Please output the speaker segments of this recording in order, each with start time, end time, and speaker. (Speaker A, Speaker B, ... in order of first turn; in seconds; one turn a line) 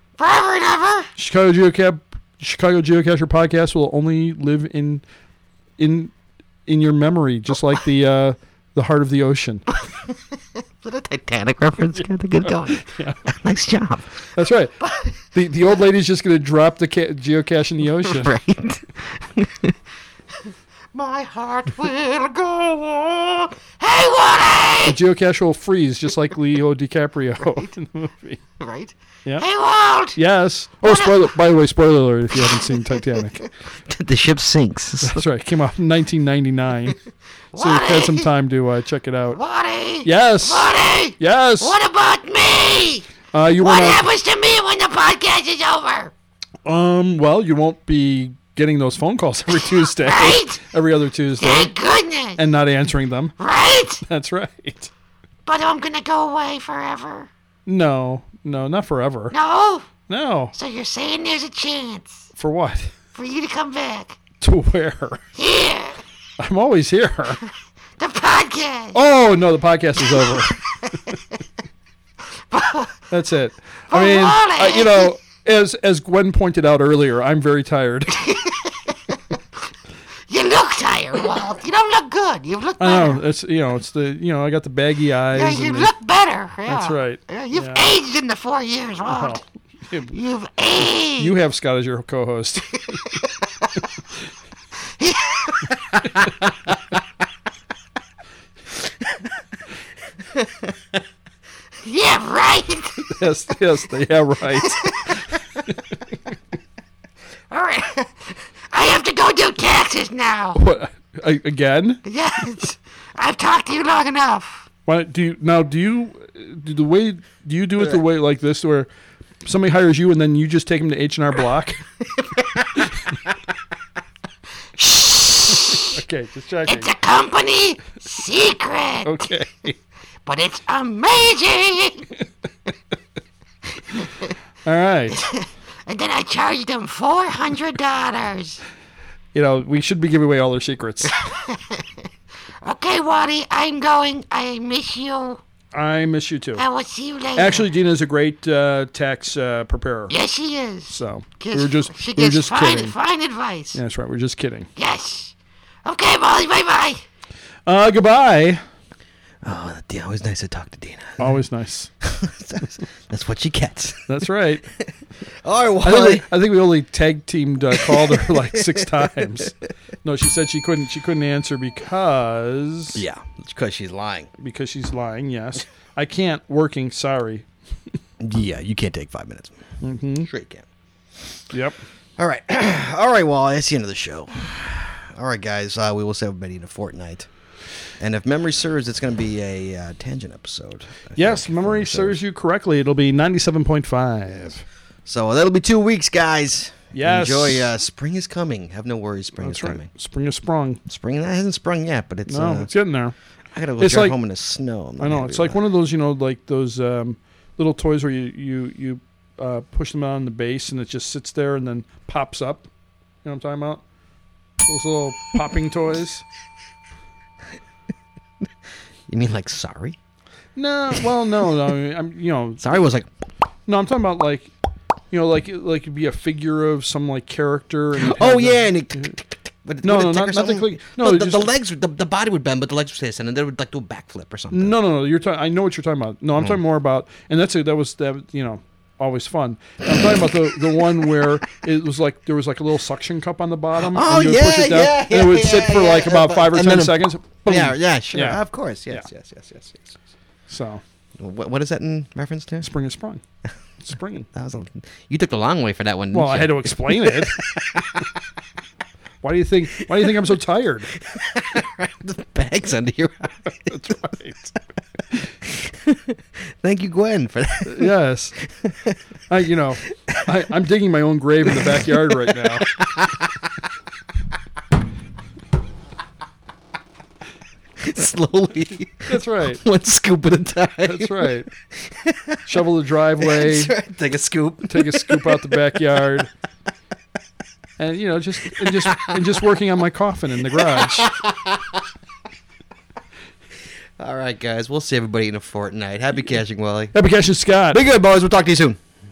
Speaker A: 0.2-1.1
Speaker B: 1.1-5.0
Speaker B: 5.8-6.1
Speaker B: 6.7-9.6
Speaker C: 10.8-14.2
Speaker B: 11.9-13.3
Speaker B: 14.3-18.3
Speaker A: 14.8-15.2
Speaker C: 18.0-19.7
Speaker A: 20.9-25.0
Speaker B: 24.9-28.4
Speaker C: 28.6-28.9
Speaker A: 28.8-30.2
Speaker B: 30.1-33.5
Speaker A: 30.8-31.2
Speaker C: 33.9-35.2
Speaker B: 35.0-37.0
Speaker A: 37.5-38.3
Speaker B: 37.5-39.4
Speaker A: 39.3-46.1
Speaker B: 40.0-41.8
Speaker B: 43.3-44.0
Speaker B: 46.6-51.7
Speaker A: 49.5-50.6
Speaker A: 51.4-52.4
Speaker B: 52.4-53.3
Speaker A: 53.4-54.0
Speaker B: 54.0-54.9
Speaker A: 55.5-57.3
Speaker B: 57.6-59.3
Speaker A: 59.3-59.9
Speaker B: 60.1-60.5
Speaker A: 60.5-62.3
Speaker B: 62.4-62.9
Speaker A: 63.1-64.2
Speaker B: 64.4-65.2
Speaker A: 65.3-66.0
Speaker B: 66.4-67.4
Speaker A: 68.0-69.0
Speaker B: 68.9-70.5
Speaker A: 70.1-70.5
Speaker A: 72.5-72.9
Speaker B: 73.1-78.1
Speaker A: 73.9-75.1
Speaker A: 78.2-78.7
Speaker A: 80.3-83.2
Speaker B: 82.8-85.9
Speaker A: 85.3-89.4
Speaker B: 86.7-87.9
Speaker B: 89.0-90.2
Speaker A: 90.1-91.3
Speaker B: 90.8-93.0
Speaker A: 95.0-95.7
Speaker A: 101.8-103.1
Speaker B: 103.1-104.8
Speaker A: 104.6-105.2
Speaker B: 105.7-105.9
Speaker A: 107.5-110.6
Speaker B: 110.5-112.0
Speaker A: 112.0-114.7
Speaker B: 114.8-118.9
Speaker B: 119.4-121.8
Speaker A: 124.8-126.0
Speaker B: 125.5-126.9
Speaker A: 126.7-129.3
Speaker B: 129.0-129.8
Speaker A: 130.2-132.1
Speaker B: 134.7-135.2
Speaker A: 135.1-138.6
Speaker B: 139.3-141.2
Speaker A: 141.2-141.8
Speaker A: 142.6-145.4
Speaker B: 145.7-146.6
Speaker A: 146.6-147.7
Speaker B: 147.3-150.1
Speaker A: 150.1-153.8
Speaker B: 150.9-152.9
Speaker B: 153.7-154.7
Speaker A: 154.8-155.3
Speaker A: 155.8-157.0
Speaker B: 157.7-158.6
Speaker C: 159.4-161.3
Speaker B: 161.2-161.9
Speaker C: 162.0-164.3
Speaker B: 164.1-164.7
Speaker C: 165.4-166.3
Speaker B: 165.8-173.0
Speaker C: 167.7-169.5
Speaker C: 172.9-174.3
Speaker B: 174.4-177.4
Speaker C: 178.2-180.7
Speaker B: 179.8-180.3
Speaker B: 181.5-181.8
Speaker C: 182.2-187.3
Speaker C: 187.8-192.2
Speaker B: 191.2-194.6
Speaker C: 195.0-199.9
Speaker B: 196.9-197.7
Speaker B: 199.4-200.8
Speaker C: 200.8-202.7
Speaker B: 202.3-203.1
Speaker C: 203.5-205.6
Speaker B: 203.8-204.2
Speaker B: 205.0-212.7
Speaker B: 213.2-213.8
Speaker B: 214.6-216.2
Speaker C: 219.1-220.0
Speaker B: 220.6-222.8
Speaker C: 222.6-223.1
Speaker B: 223.7-224.5
Speaker B: 225.1-229.2
Speaker C: 228.0-234.8
Speaker B: 229.8-231.5
Speaker B: 234.5-249.1
Speaker C: 236.3-236.6
Speaker C: 243.8-250.0
Speaker B: 250.5-250.8
Speaker C: 251.2-252.7
Speaker B: 252.6-253.2
Speaker B: 253.8-254.3
Speaker C: 254.3-258.0
Speaker B: 256.1-257.4
Speaker B: 259.2-260.9
Speaker C: 261.0-264.4
Speaker B: 263.7-264.5
Speaker C: 265.4-268.9
Speaker B: 267.6-268.4
Speaker B: 269.3-272.7
Speaker C: 270.1-270.3
Speaker C: 272.3-273.5
Speaker C: 277.8-282.6
Speaker B: 279.1-279.6
Speaker B: 280.8-281.5
Speaker B: 282.4-283.7
Speaker C: 283.2-285.8
Speaker B: 284.7-286.3
Speaker B: 287.8-291.1
Speaker C: 288.4-289.4
Speaker C: 290.4-291.8
Speaker C: 294.0-296.9
Speaker B: 296.9-297.8
Speaker C: 297.7-298.8